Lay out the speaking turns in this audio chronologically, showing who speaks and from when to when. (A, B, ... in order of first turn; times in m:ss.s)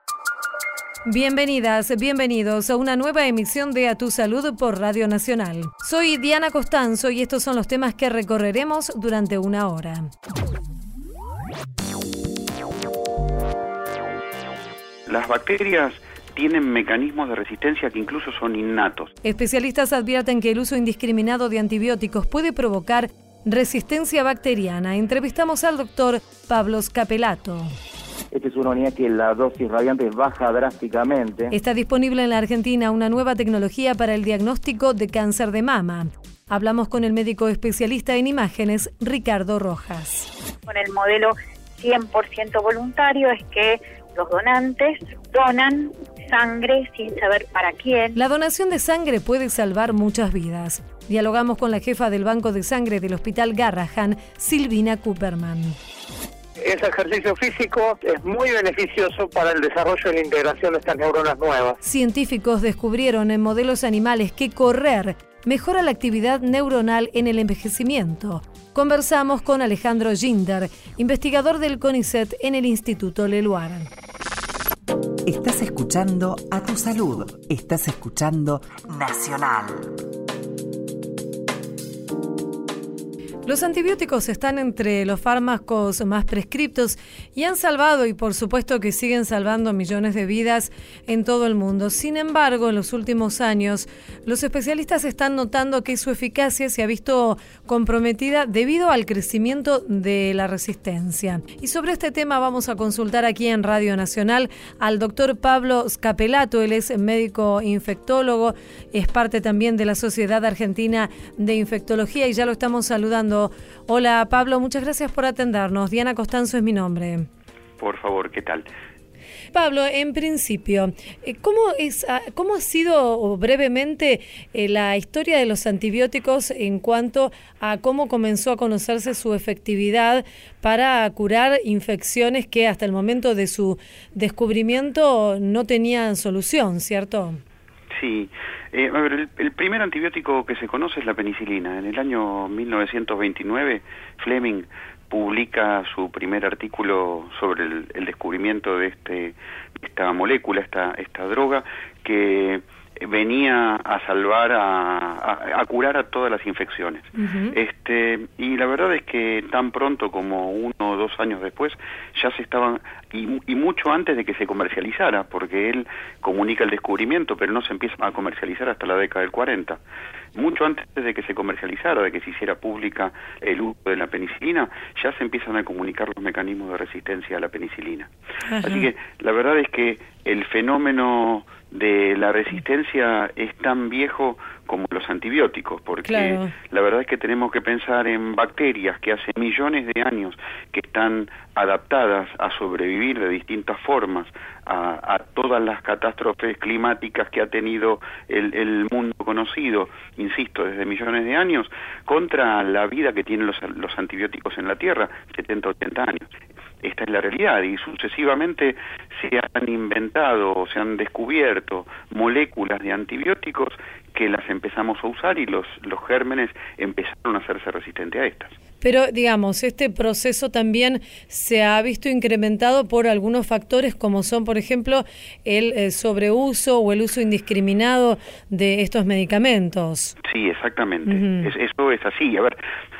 0:01.0-0:10.1 A
0:15.1-0:19.1 B
0:19.2-0:27.7 A
0:28.3-0:31.5 C
0:31.5-0:40.3 A
0:40.6-0:48.2 D
0:48.1-0:55.8 A
0:56.6-1:01.8 E
1:01.8-1:13.9 A
1:15.2-1:20.0 F
1:23.4-1:57.3 A
1:57.8-1:58.7 B
1:59.5-2:17.4 A
2:17.9-2:49.8 B
2:37.2-2:37.5 A
2:50.3-2:58.1 B
2:58.5-2:58.9 A
2:58.6-3:38.6 B
3:06.0-3:06.5 A
3:38.8-3:50.1 A
3:50.2-3:52.6 B
3:51.1-3:51.5 A